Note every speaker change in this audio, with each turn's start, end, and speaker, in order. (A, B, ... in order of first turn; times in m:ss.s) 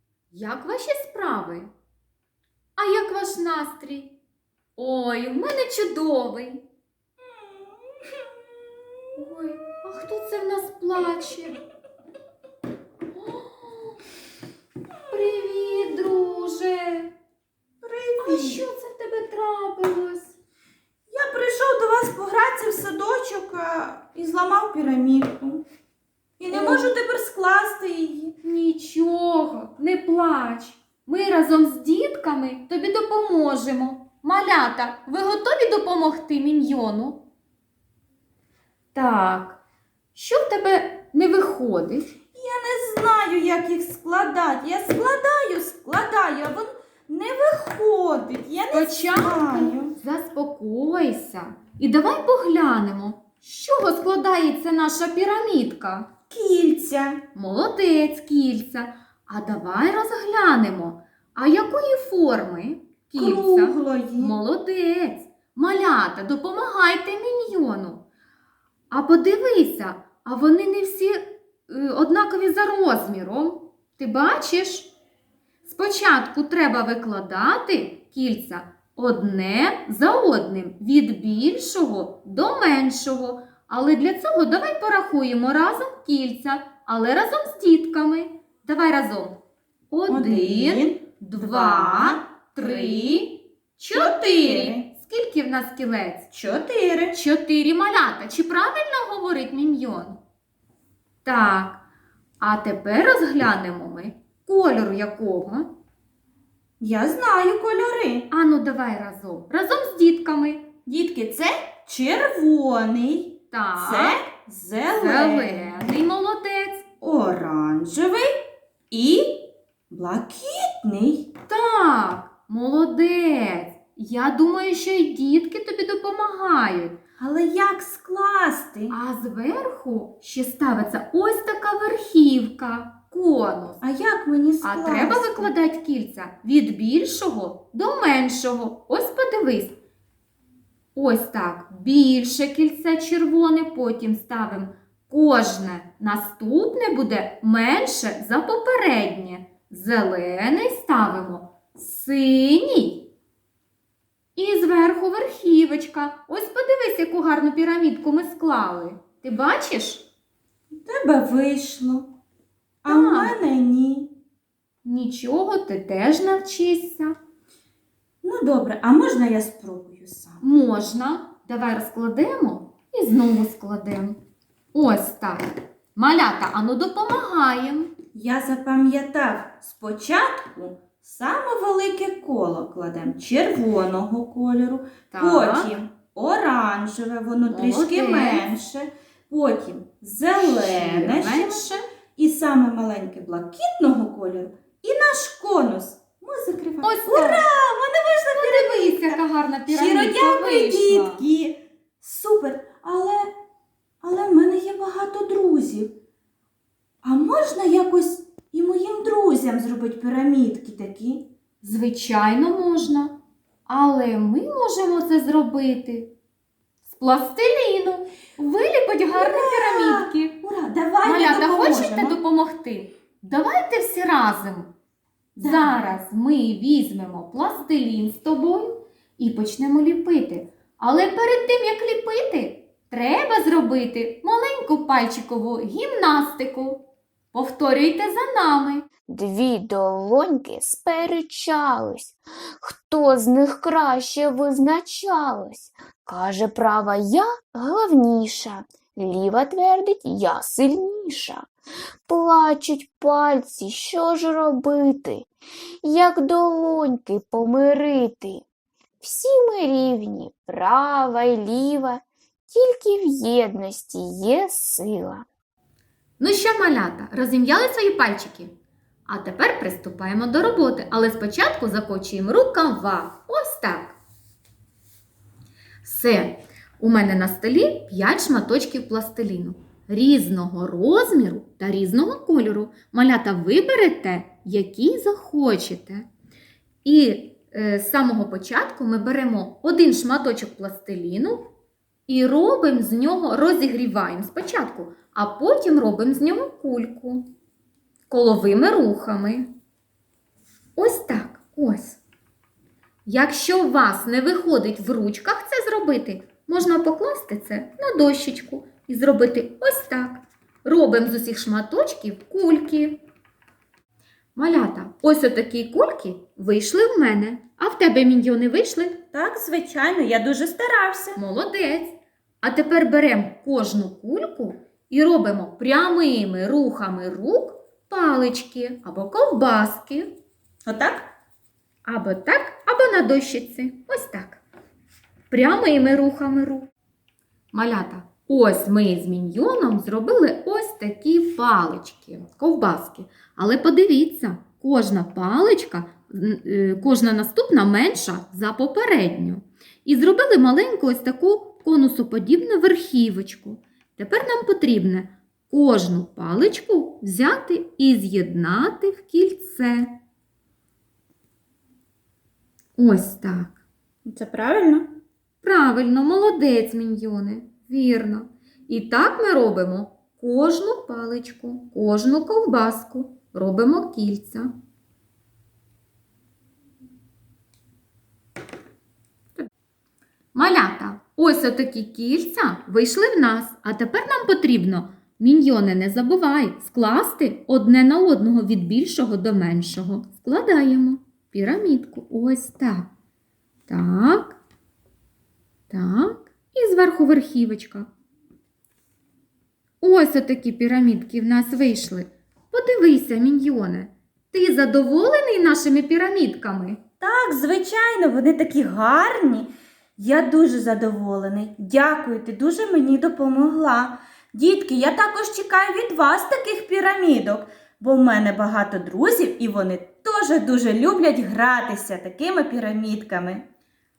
0:00.3-0:01.7 A
0:02.8-0:04.2 A
0:04.8-0:06.6 A
0:07.2-0:08.8 B
0:09.2-0:11.6 A
0:13.1-0:14.0 A
0:15.1-0:17.1 A
0:17.8-0:18.6 B
0:18.2-0:20.3 A
0:21.1-0:25.6 B
0:26.4-0:28.3 B
0:26.5-0:26.9 A
0:28.4-0:37.2 A
0:38.9-0:39.6 A
0:40.1-0:42.1 A
0:42.3-0:49.9 B
0:48.7-0:56.1 A
0:56.3-0:57.2 B
0:57.3-1:08.0 A
1:03.2-1:04.4 B
1:08.9-1:14.9 A
1:15.6-1:29.4 A
1:29.9-1:36.3 A
1:30.1-1:33.3 B
1:33.9-1:34.9 B
1:36.3-1:37.2 B
1:37.1-1:40.2 A
1:41.2-1:41.8 A
1:42.4-1:45.7 A
1:46.8-1:48.3 B
1:48.3-1:50.7 A
1:50.8-1:55.8 B
1:53.5-1:54.2 A
1:54.9-1:56.9 A
1:57.0-2:01.3 B
2:01.5-2:07.0 A
2:07.2-2:09.0 B
2:08.9-2:13.8 A
2:13.8-2:15.5 B
2:14.6-2:19.8 A
2:20.9-2:33.1 A
2:34.3-2:40.1 A
2:40.8-2:42.1 B
2:42.8-2:44.1 B
2:42.9-2:43.4 A
2:44.8-2:47.2 A
2:48.2-2:50.4 B
2:50.4-2:54.2 A
2:54.7-2:57.9 A
2:58.1-3:23.3 B
3:05.1-3:05.7 A
3:07.5-3:08.5 A
3:10.4-3:11.8 A
3:16.8-3:17.4 A
3:18.3-3:21.2 A
3:24.0-3:25.9 B
3:27.0-3:31.3 B
3:31.6-3:36.1 A
3:36.9-3:40.4 A
3:39.1-3:42.2 B
3:41.0-3:44.7 A
3:45.4-3:58.8 A
3:45.4-3:45.8 B
3:59.1-4:11.5 C
4:12.1-4:15.3 C
4:15.8-4:18.4 C
4:19.0-4:25.2 C
4:26.2-4:28.5 A
4:29.1-4:34.0 A
4:35.8-4:46.0 A
4:46.8-4:51.5 A
4:52.1-4:57.2 A
4:58.1-4:59.5 A
5:00.8-5:02.0 A
5:03.0-5:13.0 A
5:14.3-5:19.0 A
5:19.1-5:21.2 B
5:21.2-5:30.1 A
5:30.6-5:31.1 B
5:31.8-5:34.4 A
5:35.3-5:36.7 A
5:37.5-6:00.0 A
6:02.8-6:03.6 A
6:04.0-6:05.0 B
6:05.4-6:14.5 A
6:20.3-6:32.9 A
6:33.7-6:34.4 A
6:35.7-6:37.9 A
6:39.8-6:46.8 A
6:47.0-7:03.4 B